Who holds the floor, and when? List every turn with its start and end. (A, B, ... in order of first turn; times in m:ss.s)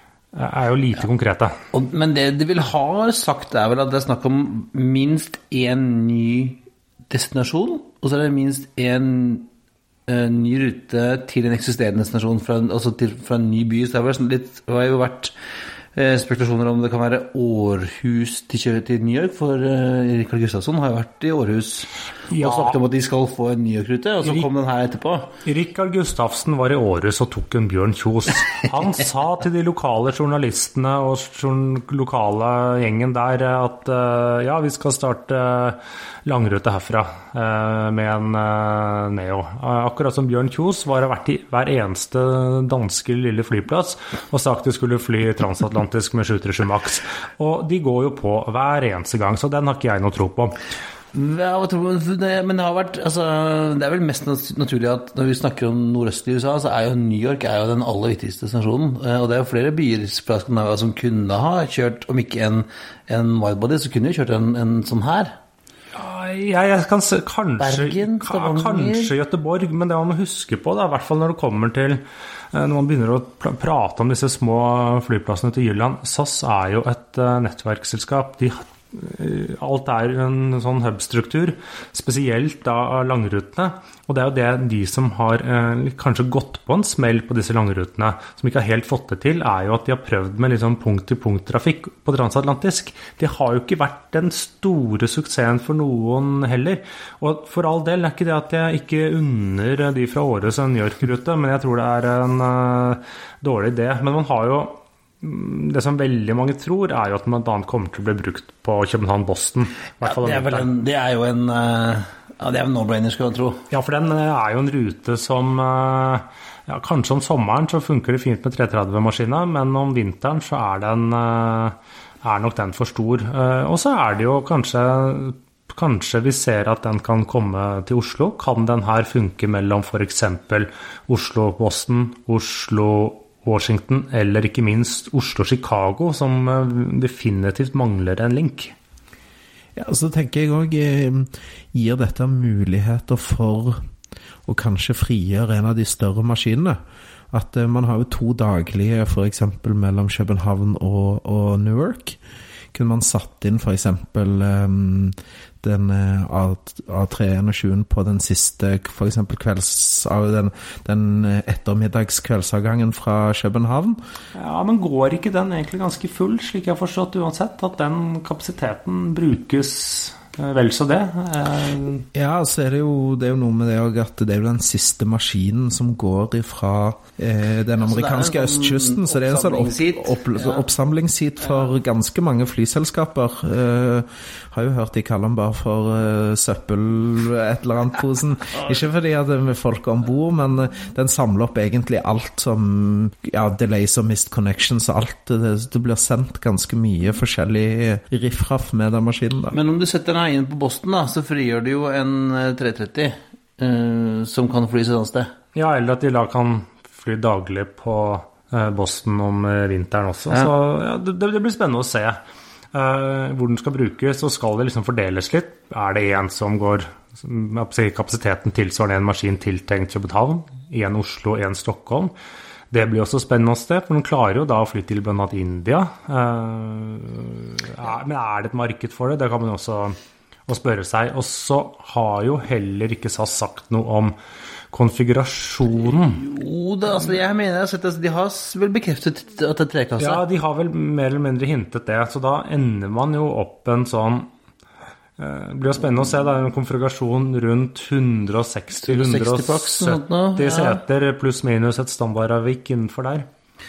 0:00.3-0:01.6 A
0:01.7-0:09.5 B
0:10.1-0:15.3 B
0:15.9-0:25.3 B
0:22.3-0:22.8 A
0:25.4-0:50.6 A
0:51.1-1:05.3 B
1:05.9-1:50.7 A
1:07.6-1:09.1 B
1:50.0-1:53.6 B
1:53.7-2:18.7 A
2:19.8-2:23.8 C
2:24.4-2:26.8 C
2:27.3-2:32.2 C
2:32.7-2:44.0 C
2:44.3-2:52.1 A
2:52.1-3:19.6 C
2:57.8-3:00.7 B
3:19.5-3:25.3 B
3:25.5-3:32.2 A
3:32.7-3:42.1 A
3:42.7-3:54.1 A
3:54.7-3:56.2 A
3:56.1-4:00.2 B
4:00.0-4:04.3 A
4:05.2-4:13.3 A
4:08.8-4:10.8 B